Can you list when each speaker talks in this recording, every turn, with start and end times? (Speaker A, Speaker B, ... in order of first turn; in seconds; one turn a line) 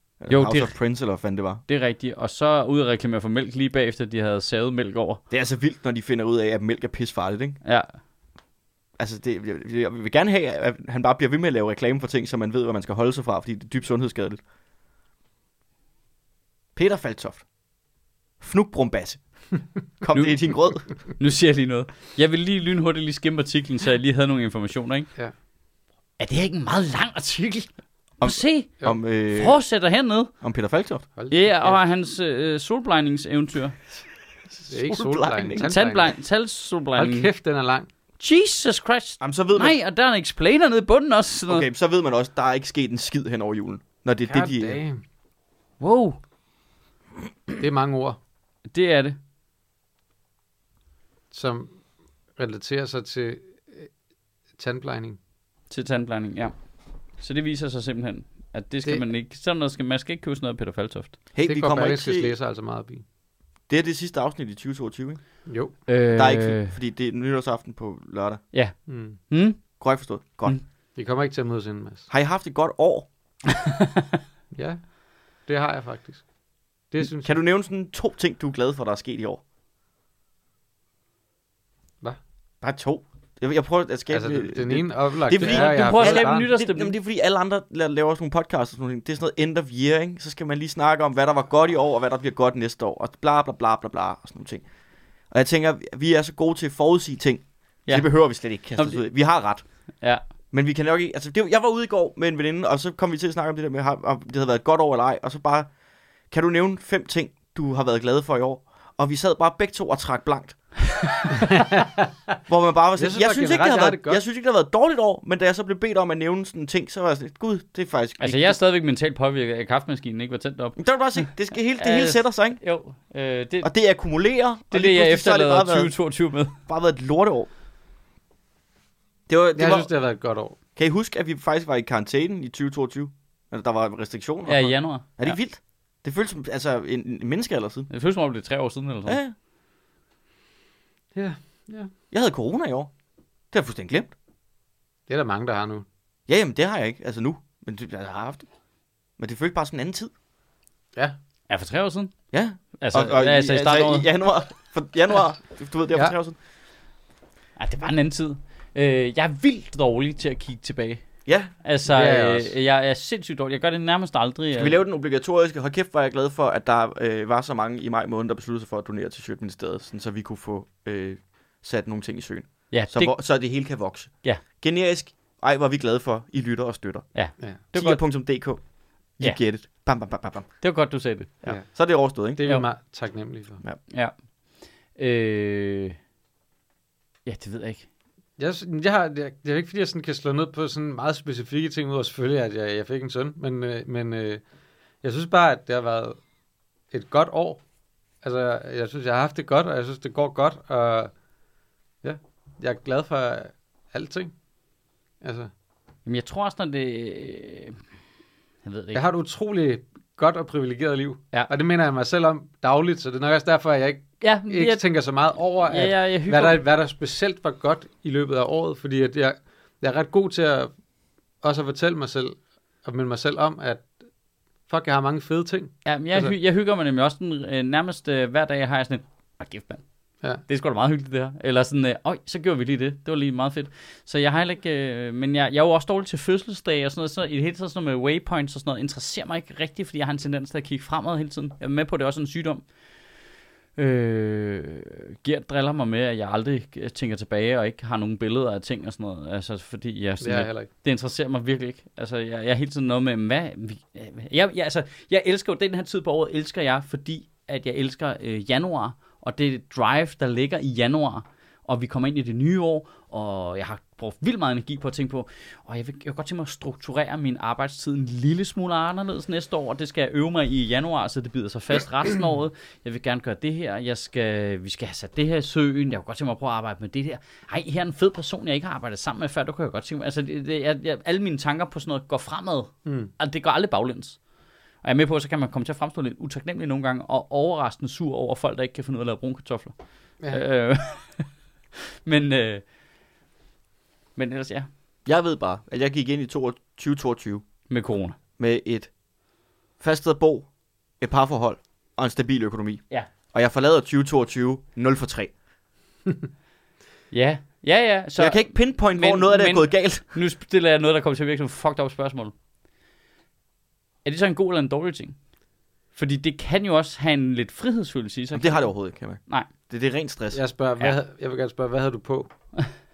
Speaker A: 0.2-1.6
Speaker B: 0.3-0.8
Speaker B: 1.7-5.2
Speaker A: 5.3-7.6
Speaker A: 9.0-14.4
Speaker A: 16.7-17.4
Speaker A: 18.4-19.2
Speaker A: 20.0-20.9
Speaker B: 20.1-25.1
Speaker B: 26.2-27.7
Speaker A: 28.2-29.6
Speaker B: 28.2-30.3
Speaker A: 30.4-31.1
Speaker C: 31.2-31.7
Speaker B: 31.3-33.8
Speaker A: 34.5-35.7
Speaker C: 34.7-36.1
Speaker B: 35.6-37.3
Speaker C: 37.0-37.9
Speaker B: 38.2-41.6
Speaker A: 39.2-39.8
Speaker A: 41.5-44.8
Speaker C: 44.2-45.0
Speaker B: 45.8-46.2
Speaker C: 47.6-48.2
Speaker B: 48.7-49.2
Speaker C: 51.3-51.8
Speaker C: 52.4-53.9
Speaker C: 54.6-55.2
Speaker B: 55.7-56.5
Speaker B: 57.2-61.2
Speaker A: 61.3-62.3
Speaker C: 61.4-63.0
Speaker A: 63.7-65.2
Speaker C: 65.5-65.8
Speaker B: 65.9-66.7
Speaker A: 66.1-68.4
Speaker C: 68.9-69.2
Speaker B: 69.3-69.6
Speaker A: 69.8-70.6
Speaker C: 71.0-72.1
Speaker A: 72.1-73.1
Speaker C: 74.5-76.2
Speaker C: 76.9-77.4
Speaker A: 77.2-79.4
Speaker A: 82.6-94.6
Speaker C: 84.1-86.5
Speaker B: 85.4-86.9
Speaker A: 95.3-99.6
Speaker B: 98.8-99.0
Speaker A: 100.5-105.7
Speaker A: 106.3-110.6
Speaker C: 111.4-112.0
Speaker A: 112.5-118.6
Speaker C: 113.0-114.2
Speaker B: 118.2-120.8
Speaker A: 120.8-122.6
Speaker B: 121.7-123.7
Speaker A: 123.6-125.9
Speaker B: 124.7-126.5
Speaker A: 126.7-127.5
Speaker A: 129.3-129.9
Speaker C: 129.6-130.6
Speaker A: 130.8-137.9
Speaker B: 134.5-135.4
Speaker B: 137.9-139.2
Speaker A: 139.1-139.3
Speaker C: 141.1-141.9
Speaker A: 142.1-142.9
Speaker A: 143.5-144.1
Speaker C: 145.1-145.8
Speaker A: 146.3-148.5
Speaker A: 149.2-150.1
Speaker B: 151.5-152.1
Speaker A: 152.3-156.4
Speaker B: 152.8-154.1
Speaker B: 157.6-161.0
Speaker A: 161.2-161.5
Speaker B: 161.6-164.8
Speaker C: 161.9-162.5
Speaker A: 164.5-177.1
Speaker B: 172.7-173.1
Speaker B: 177.1-178.0
Speaker A: 177.7-178.6
Speaker A: 179.2-180.5
Speaker B: 180.6-181.4
Speaker A: 181.4-182.4
Speaker C: 182.3-183.6
Speaker B: 184.9-186.0
Speaker B: 187.2-187.9
Speaker C: 188.4-194.4
Speaker C: 195.0-196.2
Speaker C: 196.9-197.6
Speaker C: 198.2-201.1
Speaker C: 202.0-204.3
Speaker C: 205.2-205.5
Speaker B: 206.0-207.8
Speaker B: 208.6-209.0
Speaker C: 208.9-220.7
Speaker B: 214.2-214.8
Speaker B: 215.6-216.6
Speaker C: 221.4-223.9
Speaker C: 224.7-226.3
Speaker B: 225.8-229.8
Speaker B: 230.4-242.6
Speaker B: 243.8-284.2
Speaker C: 250.2-250.7
Speaker C: 282.9-283.1
Speaker B: 284.8-289.8
Speaker B: 290.3-291.3
Speaker B: 292.0-292.6
Speaker B: 294.1-294.7
Speaker A: 295.1-297.4
Speaker B: 297.7-298.1
Speaker A: 298.4-298.9
Speaker A: 299.8-300.5
Speaker A: 301.0-305.3
Speaker B: 307.1-312.3
Speaker A: 308.2-310.0
Speaker B: 314.0-315.2
Speaker B: 315.9-318.7
Speaker A: 318.3-320.4
Speaker C: 320.3-322.3